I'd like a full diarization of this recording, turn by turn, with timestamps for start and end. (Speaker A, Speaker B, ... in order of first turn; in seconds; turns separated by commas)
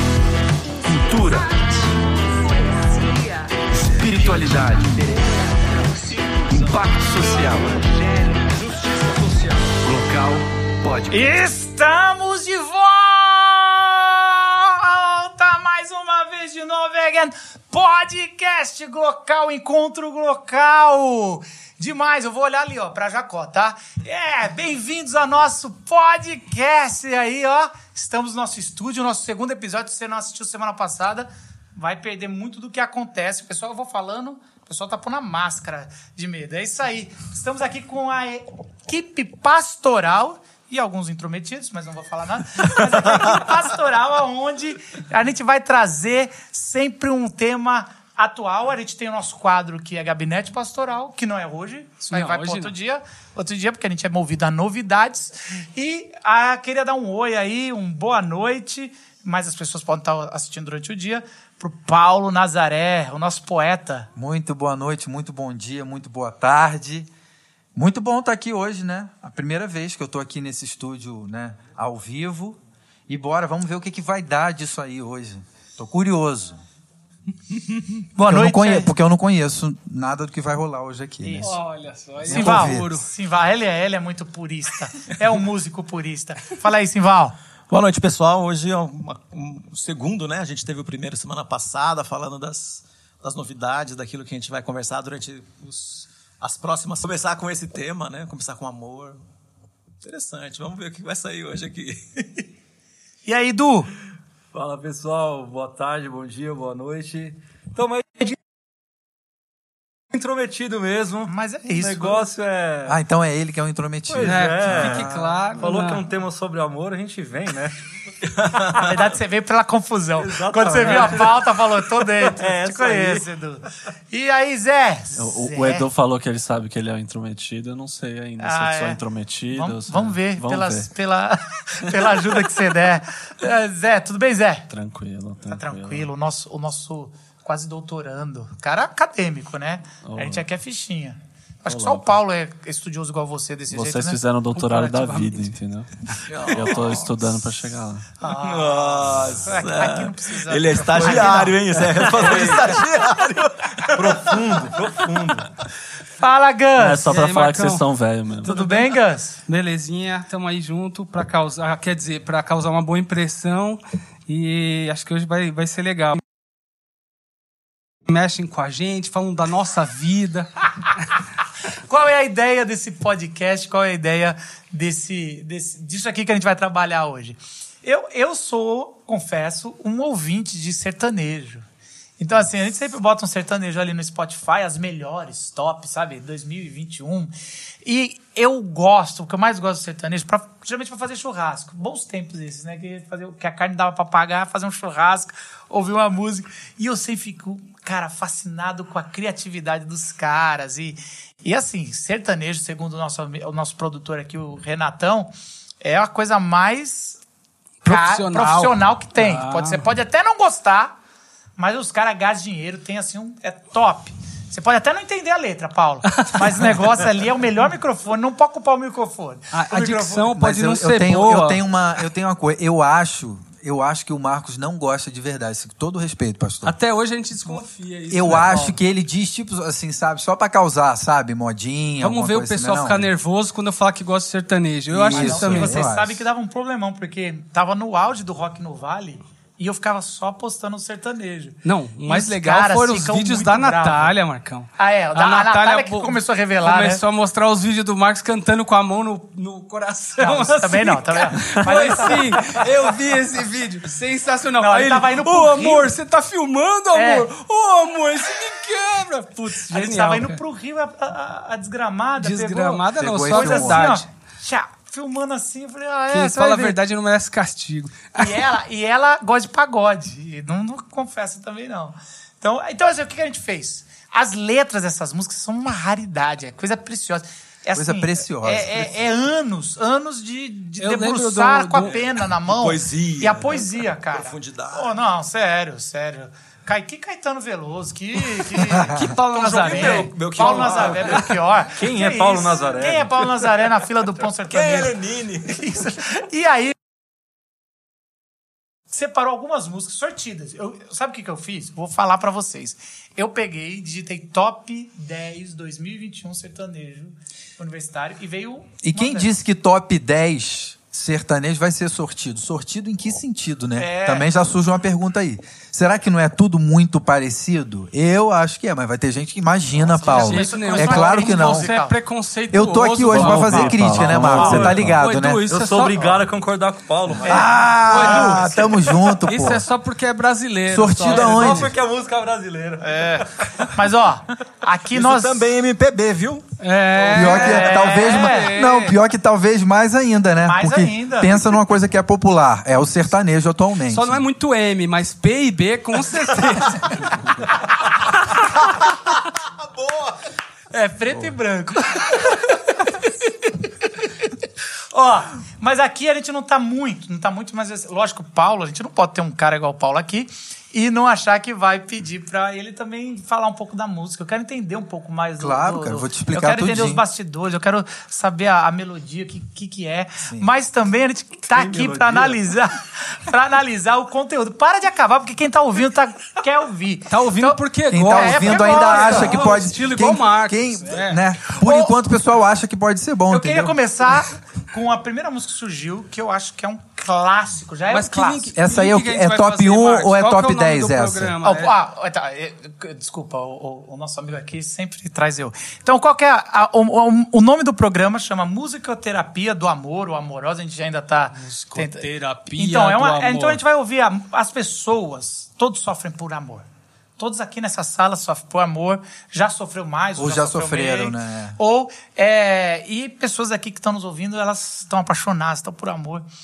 Speaker A: 0.8-1.9, Speaker A: 3.8-5.2, Speaker A: 6.0-11.2, Speaker B: 11.1-64.1, Speaker C: 52.1-52.7, Speaker D: 64.2-67.1, Speaker D: 67.8-76.6, Speaker B: 78.2-78.9, Speaker D: 78.2-81.6, Speaker B: 81.2-81.5, Speaker C: 81.4-83.1, Speaker D: 82.2-82.9, Speaker B: 82.3-87.3, Speaker E: 87.7-99.2, Speaker E: 100.0-102.5, Speaker B: 103.2-103.9, Speaker F: 104.5-108.4, Speaker F: 110.1-113.0, Speaker B: 111.3-112.2, Speaker D: 112.9-115.3, Speaker F: 114.1-117.7, Speaker C: 114.2-116.0, Speaker E: 118.3-119.0, Speaker B: 118.8-125.9, Speaker F: 120.2-121.5, Speaker F: 122.1-123.3, Speaker G: 125.2-130.9, Speaker B: 128.4-129.0, Speaker B: 129.5-134.7, Speaker G: 134.7-136.1, Speaker B: 135.5-144.2, Speaker G: 140.1-140.5, Speaker G: 141.7-142.1, Speaker G: 143.7-148.1, Speaker C: 144.6-145.5, Speaker E: 146.3-146.9, Speaker B: 146.4-146.8, Speaker B: 148.2-152.5, Speaker E: 148.2-155.0, Speaker F: 150.9-151.4, Speaker F: 152.0-152.8, Speaker F: 153.9-155.5, Speaker B: 156.2-157.2, Speaker G: 156.8-158.6, Speaker C: 157.1-157.8, Speaker B: 158.4-159.4, Speaker C: 158.5-158.9, Speaker C: 159.5-166.2, Speaker C: 168.1-170.5, Speaker B: 171.9-181.7, Speaker B: 182.2-187.3, Speaker B: 187.8-207.2, Speaker C: 207.8-209.8, Speaker B: 207.9-210.9, Speaker B: 211.6-220.3, Speaker C: 219.5-221.6, Speaker D: 220.4-226.8, Speaker C: 226.6-228.8, Speaker D: 227.5-233.1, Speaker C: 232.0-235.8, Speaker D: 234.9-236.2, Speaker B: 235.1-244.1, Speaker C: 241.7-260.4, Speaker B: 244.8-247.0, Speaker B: 250.2-252.6, Speaker B: 254.6-255.9, Speaker B: 256.9-257.3, Speaker B: 259.7-266.8, Speaker C: 262.2-264.1, Speaker D: 263.0-263.9, Speaker C: 266.1-268.4, Speaker B: 268.2-296.8, Speaker D: 277.8-278.9, Speaker C: 280.8-281.9, Speaker E: 281.9-284.9, Speaker C: 288.8-290.8, Speaker E: 289.6-291.3, Speaker F: 291.7-293.5, Speaker E: 294.5-295.6, Speaker B: 298.9-309.3, Speaker D: 308.8-321.7, Speaker B: 313.8-314.3, Speaker B: 319.8-322.0, Speaker C: 320.1-326.2, Speaker D: 322.5-325.4, Speaker G: 323.1-325.0, Speaker B: 324.3-324.6, Speaker F: 325.5-327.6, Speaker B: 327.2-328.2, Speaker D: 327.2-329.6, Speaker C: 327.6-331.7, Speaker E: 327.9-328.4, Speaker D: 330.7-331.8, Speaker F: 331.0-333.6, Speaker E: 332.9-333.2, Speaker B: 333.7-335.5, Speaker E: 334.9-336.4, Speaker C: 336.6-339.0, Speaker B: 337.1-338.6, Speaker D: 337.1-344.2, Speaker B: 340.4-341.6, Speaker C: 343.9-347.2, Speaker E: 349.4-350.2, Speaker B: 350.7-352.9, Speaker B: 354.9-379.6, Speaker D: 365.4-367.0, Speaker D: 370.2-370.5, Speaker F: 371.6-372.4, Speaker C: 377.1-381.2, Speaker D: 377.9-383.8, Speaker B: 381.5-381.9, Speaker B: 383.3-388.5, Speaker C: 387.9-391.8, Speaker D: 388.6-391.4, Speaker B: 391.4-406.6, Speaker C: 401.4-403.6, Speaker B: 407.2-416.3, Speaker D: 410.2-411.6